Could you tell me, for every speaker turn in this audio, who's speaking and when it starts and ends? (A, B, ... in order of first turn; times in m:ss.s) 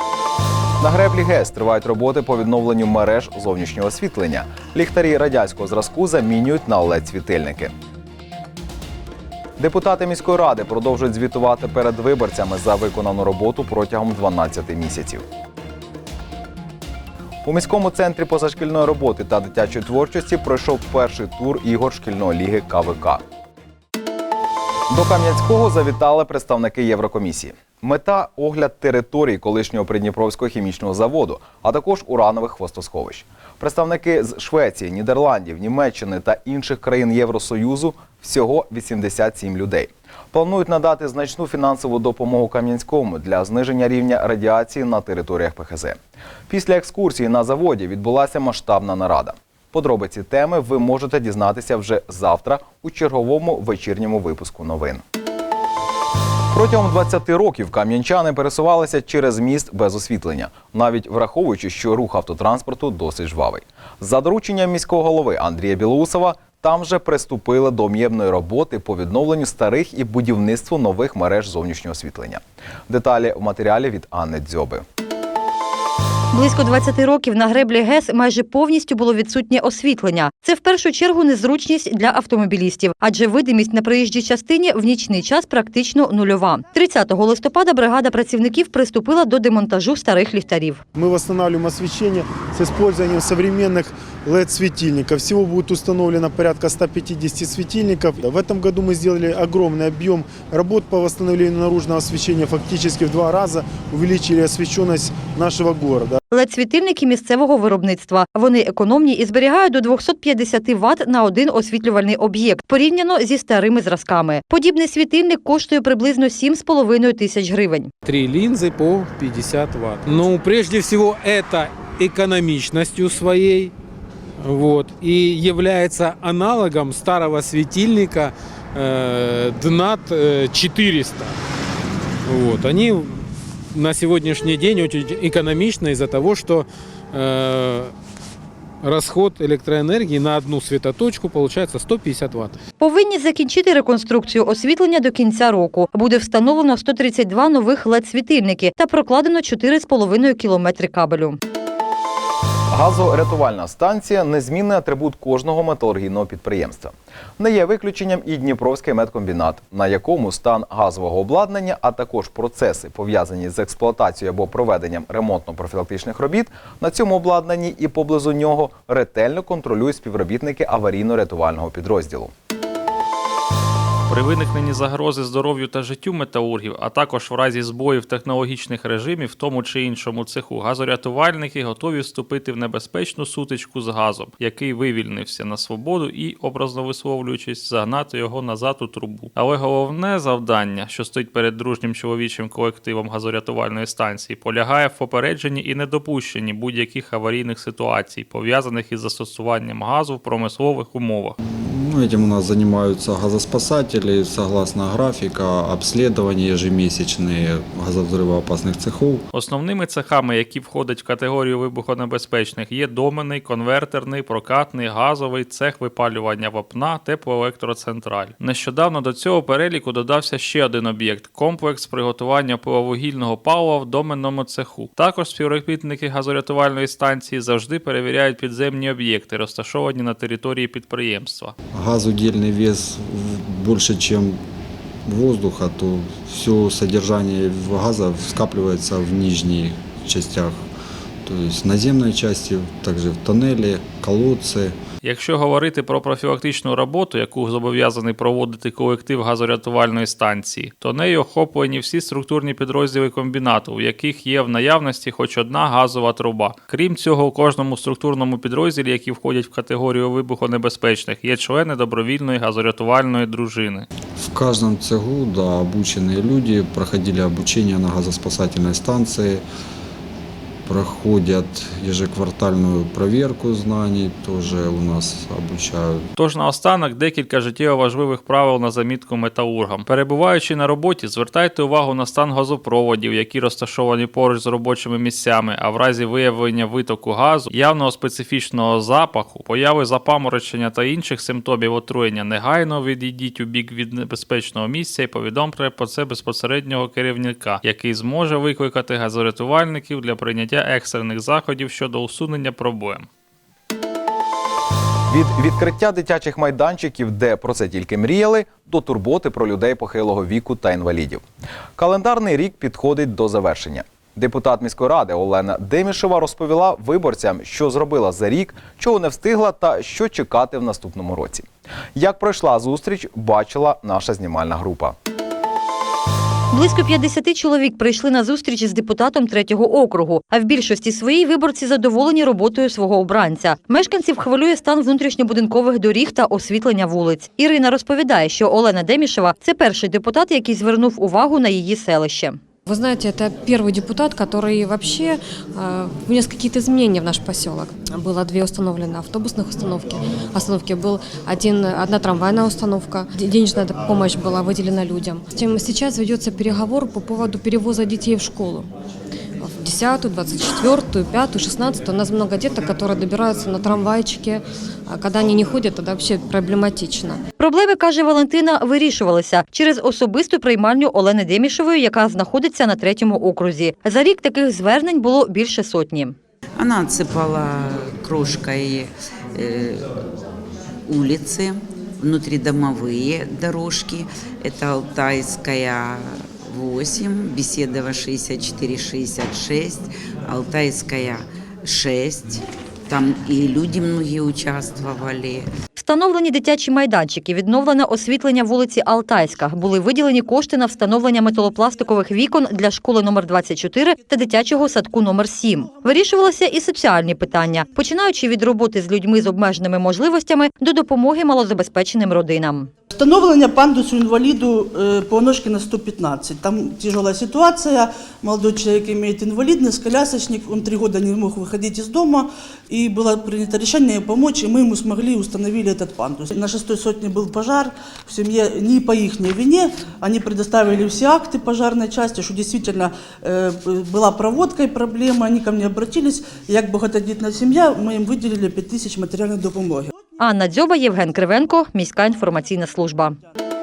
0:00.8-0:07.7 A
0:09.6-0:15.2 A
0:17.4-0:23.2 A
0:24.9-0:46.0 A
0:46.5-0:55.0 A
0:56.5-1:14.8 A
1:16.3-1:30.8 B
1:31.0-1:46.2 C
1:46.3-1:57.9 B
1:58.1-2:03.7 D
2:04.5-2:08.3 D
2:08.8-2:11.3 D
2:12.3-2:13.1 D
2:13.8-2:16.6 D
2:17.2-2:17.9 D
2:18.8-2:22.5 D
2:22.8-2:31.4 B
2:32.7-2:52.3 A
2:54.1-3:21.4 E
3:21.5-3:29.2 F
3:29.3-3:51.5 E
3:51.7-3:54.4 F
3:55.1-4:00.6 F
4:01.3-4:04.8 F
4:05.0-4:23.9 E
4:24.2-4:29.4 F
4:30.7-4:36.1 F
4:36.2-5:03.1 E
5:05.1-5:11.2 A
5:11.8-5:25.0 A
5:26.5-5:42.4 B
5:42.7-5:58.7 G
5:59.4-6:07.2 G
6:07.4-6:16.2 B
6:16.6-6:19.8 H
6:20.9-6:35.5 H
6:35.8-6:52.7 B
6:52.9-7:19.9 I
7:20.2-7:23.2 B